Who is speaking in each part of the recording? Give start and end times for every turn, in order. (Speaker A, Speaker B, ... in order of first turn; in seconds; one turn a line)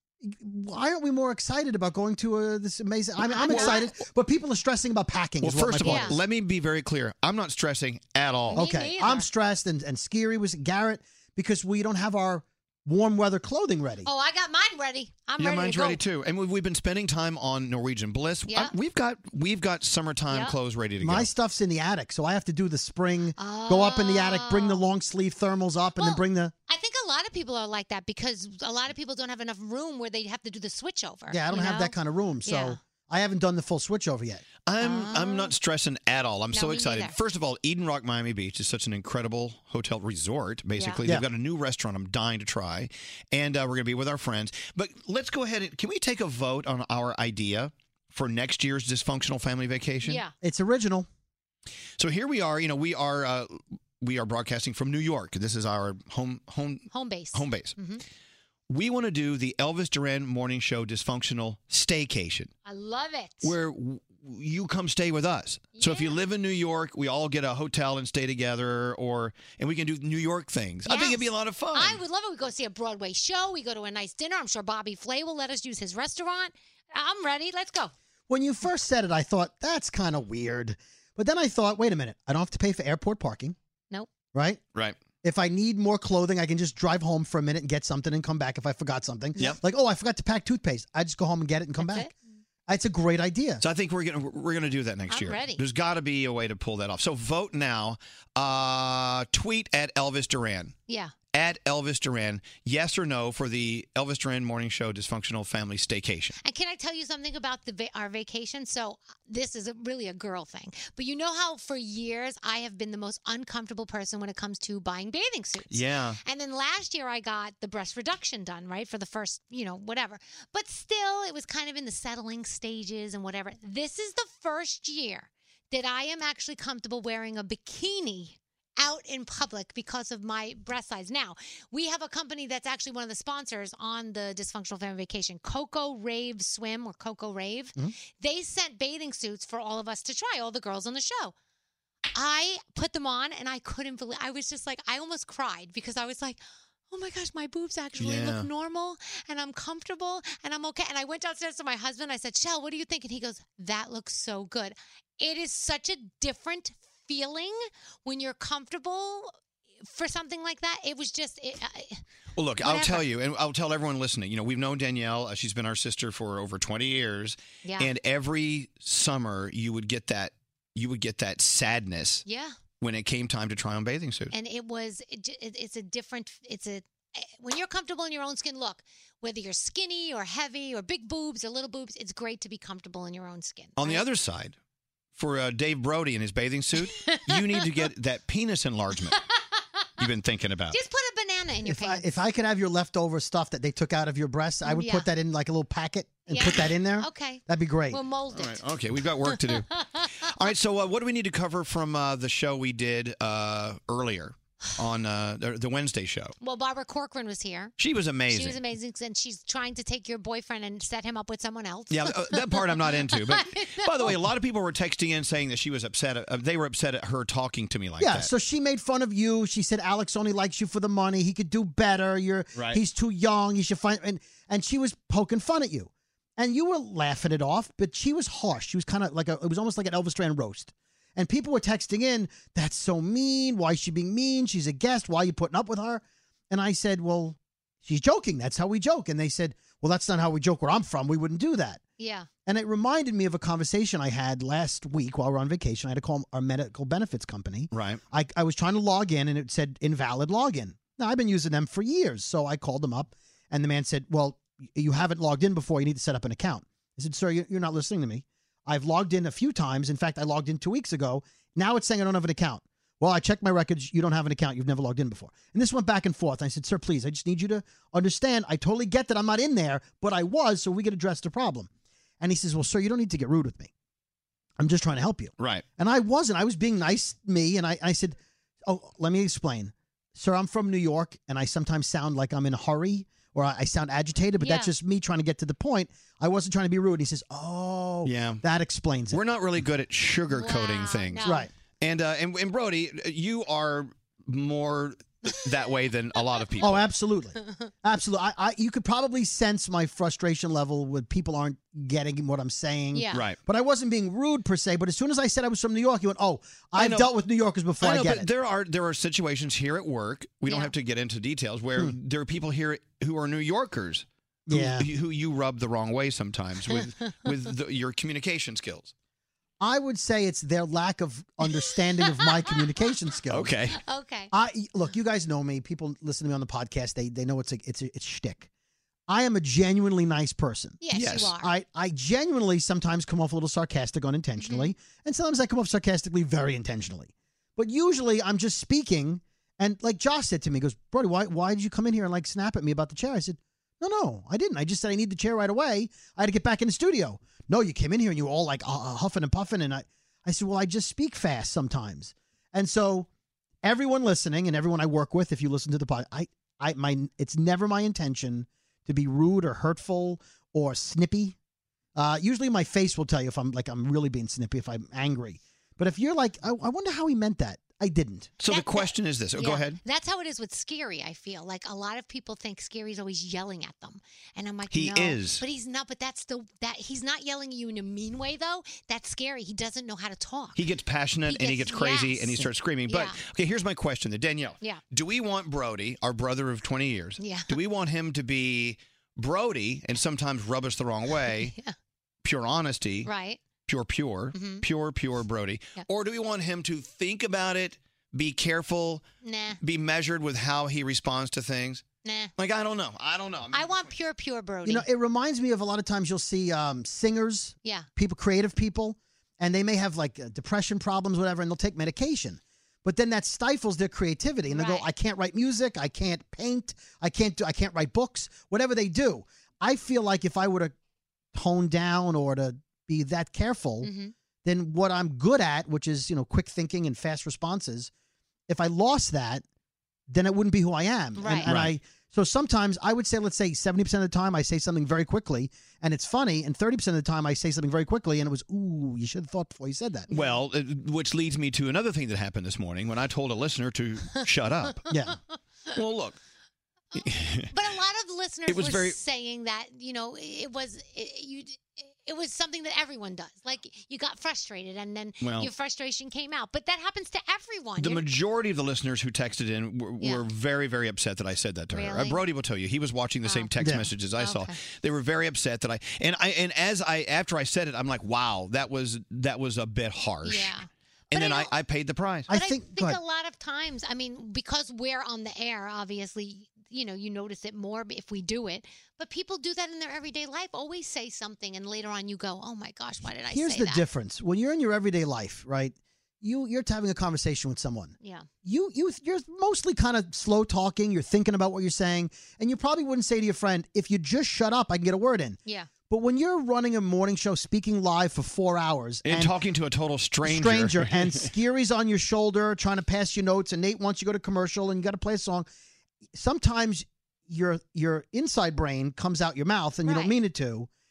Speaker A: 0.2-6.2
Speaker B: 3.2-3.9
Speaker C: 3.4-3.9
Speaker C: 5.4-8.6
Speaker B: 5.8-6.2
Speaker B: 8.5-9.3
Speaker A: 8.5-14.1
Speaker B: 14.0-16.0
Speaker C: 15.4-21.3
Speaker B: 18.5-18.7
Speaker B: 20.3-20.6
Speaker A: 21.0-26.5
Speaker B: 23.4-24.8
Speaker B: 26.0-32.8
Speaker A: 31.3-34.4
Speaker C: 34.7-50.2
Speaker B: 34.8-35.5
Speaker B: 36.5-37.2
Speaker B: 40.8-41.0
Speaker B: 50.0-50.3
Speaker A: 50.4-51.1
Speaker C: 52.0-57.8
Speaker B: 56.9-58.0
Speaker C: 58.7-62.5
Speaker B: 62.6-63.5
Speaker C: 63.4-72.0
Speaker B: 65.8-66.2
Speaker B: 70.8-77.9
Speaker A: 78.3-83.6
Speaker A: 84.3-84.6
Speaker A: 85.2-92.1
Speaker B: 91.8-92.1
Speaker A: 92.7-93.6
Speaker C: 93.6-100.8
Speaker B: 95.1-95.6
Speaker B: 100.9-101.1
Speaker C: 101.3-106.3
Speaker B: 106.4-141.3
Speaker C: 115.7-116.2
Speaker B: 142.1-159.3
Speaker C: 148.0-148.5
Speaker B: 159.8-162.0
Speaker C: 162.4-172.2
Speaker B: 162.6-163.1
Speaker B: 167.6-167.9
Speaker B: 172.2-172.5
Speaker C: 172.8-174.3
Speaker B: 174.3-184.1
Speaker C: 183.8-184.6
Speaker C: 185.2-189.2
Speaker B: 186.9-187.5
Speaker B: 189.2-189.6
Speaker C: 190.0-190.8
Speaker B: 190.7-192.1
Speaker A: 191.6-198.0
Speaker B: 194.6-195.1
Speaker B: 196.3-198.7
Speaker C: 198.3-199.7
Speaker B: 199.3-200.3
Speaker C: 200.3-206.3
Speaker B: 206.4-207.8
Speaker C: 207.8-208.6
Speaker B: 208.3-214.2
Speaker C: 211.9-218.3
Speaker A: 218.0-241.8
Speaker C: 222.6-222.8
Speaker B: 242.0-242.3
Speaker A: 242.5-271.7
Speaker C: 247.7-248.0
Speaker A: 272.2-273.7
Speaker A: 274.6-289.2
Speaker C: 275.4-275.6
Speaker B: 284.4-284.7
Speaker C: 288.0-288.4
Speaker C: 289.1-291.3
Speaker B: 290.3-291.5
Speaker A: 291.2-291.5
Speaker C: 291.8-296.9
Speaker A: 296.6-308.3
Speaker B: 302.9-303.2
Speaker C: 306.8-307.1
Speaker C: 307.8-318.9
Speaker B: 310.5-310.7
Speaker A: 314.5-314.9
Speaker B: 317.1-317.4
Speaker A: 319.6-323.5
Speaker B: 321.4-322.6
Speaker C: 323.3-323.8
Speaker B: 323.7-324.3
Speaker A: 324.3-328.5
Speaker A: 329.1-353.1
Speaker B: 330.8-331.5
Speaker C: 330.9-331.3
Speaker B: 334.4-334.7
Speaker A: 353.6-361.4
Speaker A: 362.0-368.3
Speaker C: 368.4-369.8
Speaker B: 368.5-380.6
Speaker C: 374.7-375.5
Speaker C: 380.6-391.5
Speaker B: 381.2-383.2
Speaker B: 387.2-387.6
Speaker B: 391.4-391.7
Speaker C: 392.2-393.1
Speaker B: 393.0-393.4
Speaker C: 393.7-399.0
Speaker B: 394.3-394.6
Speaker B: 399.2-399.6
Speaker C: 399.6-401.9
Speaker B: 402.0-402.3
Speaker C: 402.4-403.9
Speaker B: 403.5-404.9
Speaker A: 404.6-420.7
Speaker B: 414.5-414.9
Speaker A: 421.3-427.9
Speaker B: 423.8-424.1
Speaker A: 428.5-429.4
Speaker A: 430.1-440.1
Speaker B: 431.1-431.5
Speaker C: 431.4-431.8
Speaker B: 440.1-440.4
Speaker C: 440.1-444.9
Speaker A: 444.9-445.2
Speaker C: 445.7-446.2
Speaker B: 446.9-458.1
Speaker C: 447.0-447.5
Speaker C: 448.5-449.0
Speaker C: 455.2-455.5
Speaker C: 457.8-470.6
Speaker B: 460.0-460.3
Speaker B: 461.7-462.2
Speaker B: 463.2-463.5
Speaker A: 463.6-463.9
Speaker B: 464.2-464.6
Speaker B: 470.2-471.5
Speaker C: 471.1-472.3
Speaker A: 472.3-473.0
Speaker B: 472.3-483.9
Speaker A: 483.3-499.4
Speaker B: 488.0-488.3
Speaker B: 495.4-495.7
Speaker C: 499.1-501.3
Speaker A: 500.2-505.5
Speaker A: 506.1-510.7
Speaker B: 509.8-510.2